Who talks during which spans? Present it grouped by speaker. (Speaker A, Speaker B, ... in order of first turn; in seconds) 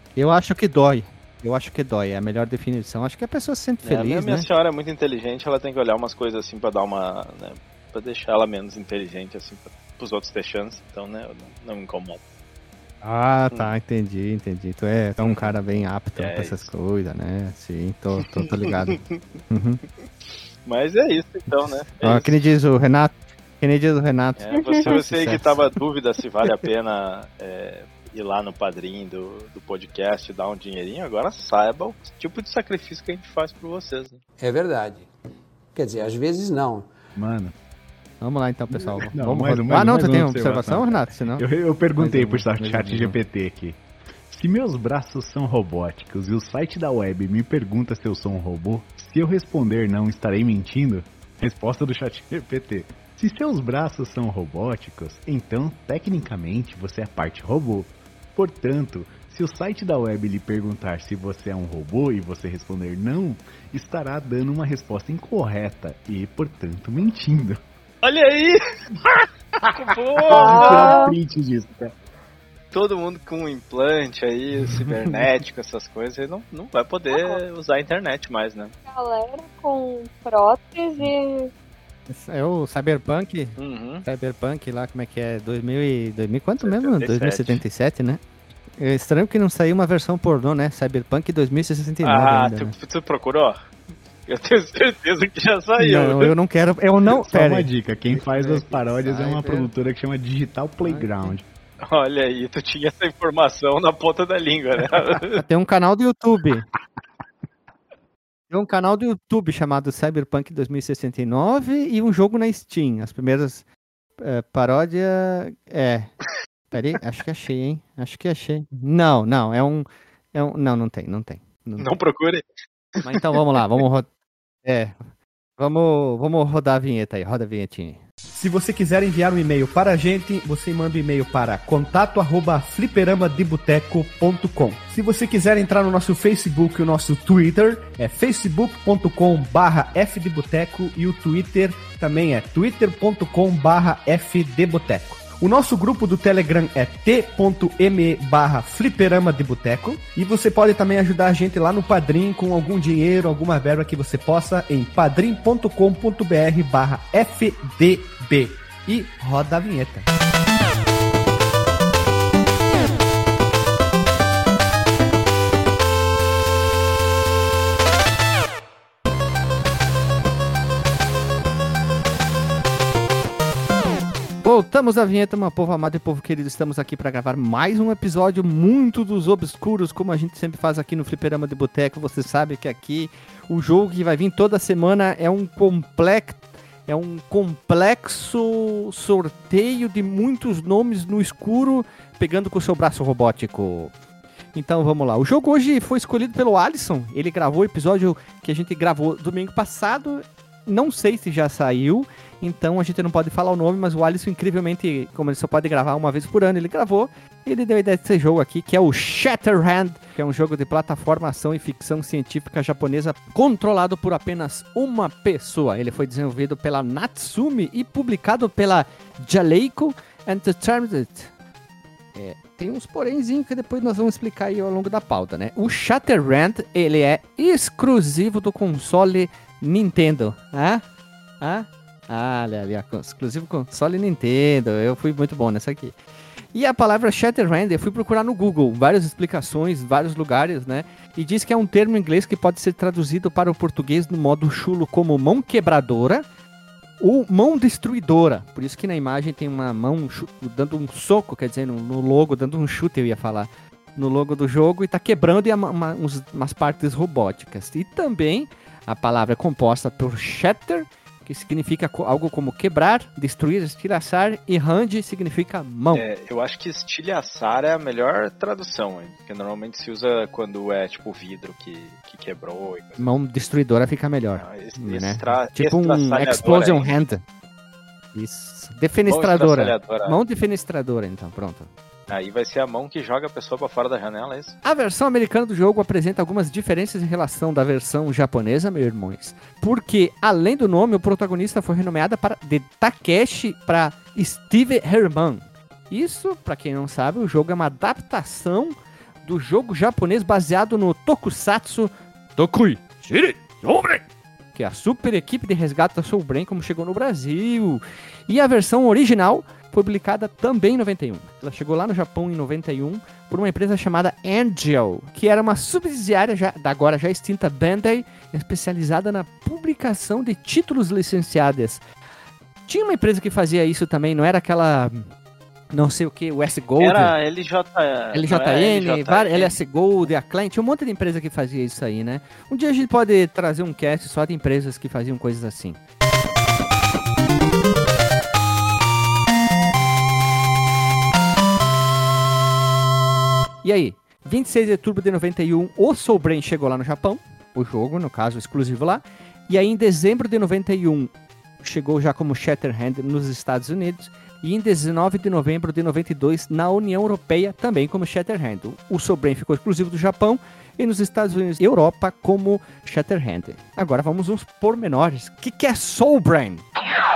Speaker A: 0.1-4.5, 13.0-19.8, 21.6-25.8, 38.2-41.5, 42.0-43.2, 74.8-75.3, 82.1-88.2, 88.8-92.7, 95.8-99.7, 100.8-101.4, 105.3-106.7, 108.5-113.6, 114.2-116.1, 116.7-122.0, 123.0-124.1, 124.6-125.0, 125.6-128.0, 174.4-193.9, 194.5-221.3, 222.1-230.8, 231.4-235.9, 236.5-246.2, 247.0-266.0, 273.0-277.2, 278.1-281.7, 284.6-321.8, 322.7-325.0, 325.7-327.1, 328.1-335.8, 343.6-351.1, 351.6-366.6
Speaker B: 3.8-12.2, 15.2-15.6, 16.1-16.7, 18.2-19.2, 20.6-22.4, 24.4-34.2, 68.0-68.6, 69.2-71.1, 72.7-78.7, 83.6-84.0, 86.6-87.6, 92.0-93.6, 94.3-96.3, 101.8-105.4, 121.8-122.4, 123.0-123.6, 265.9-273.1, 274.4-276.9, 279.1-280.2, 282.1-284.5, 326.8-329.6
Speaker C: 24.6-24.9, 70.3-71.1, 77.1-77.4, 78.9-81.5
Speaker D: 34.4-35.1, 35.7-36.9
Speaker E: 37.1-37.5, 38.7-67.6, 70.2-71.9, 97.1-101.4
Speaker F: 128.3-160.0